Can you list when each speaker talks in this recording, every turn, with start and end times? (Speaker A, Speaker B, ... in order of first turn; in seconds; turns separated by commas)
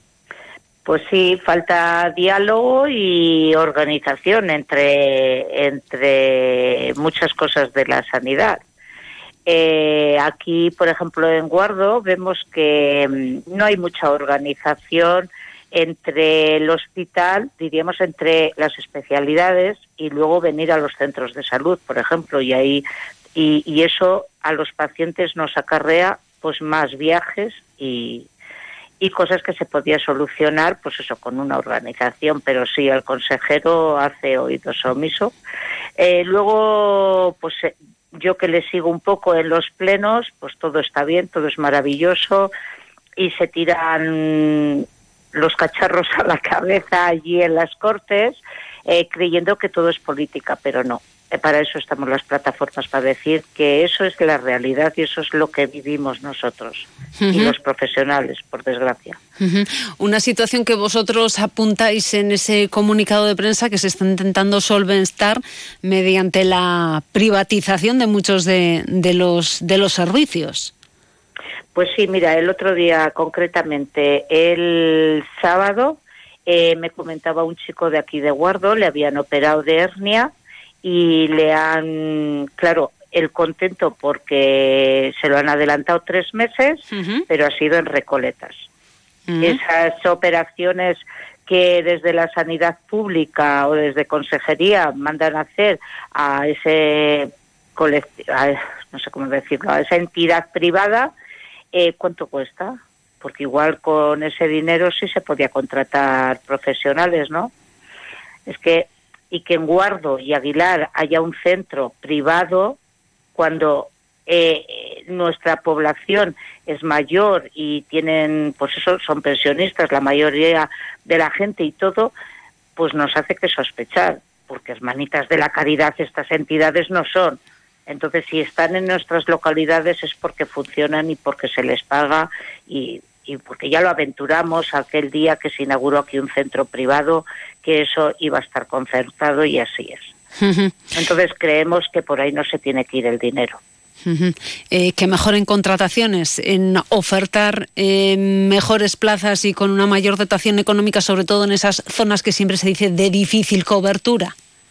Speaker A: 0.8-8.6, Speaker A: 9.4-22.8, Speaker A: 23.4-28.3, Speaker A: 29.0-35.3, Speaker A: 36.0-42.5, Speaker A: 43.2-59.2, Speaker B: 57.2-57.5, Speaker B: 59.4-70.7, Speaker A: 71.7-80.3, Speaker A: 80.8-88.6, Speaker B: 86.9-87.2, Speaker B: 89.3-89.6, Speaker A: 89.4-101.1, Speaker A: 101.7-107.5, Speaker A: 108.5-112.8, Speaker A: 113.3-122.1, Speaker A: 122.8-140.1, Speaker B: 140.4-140.8, Speaker A: 140.9-143.6, Speaker B: 144.0-154.3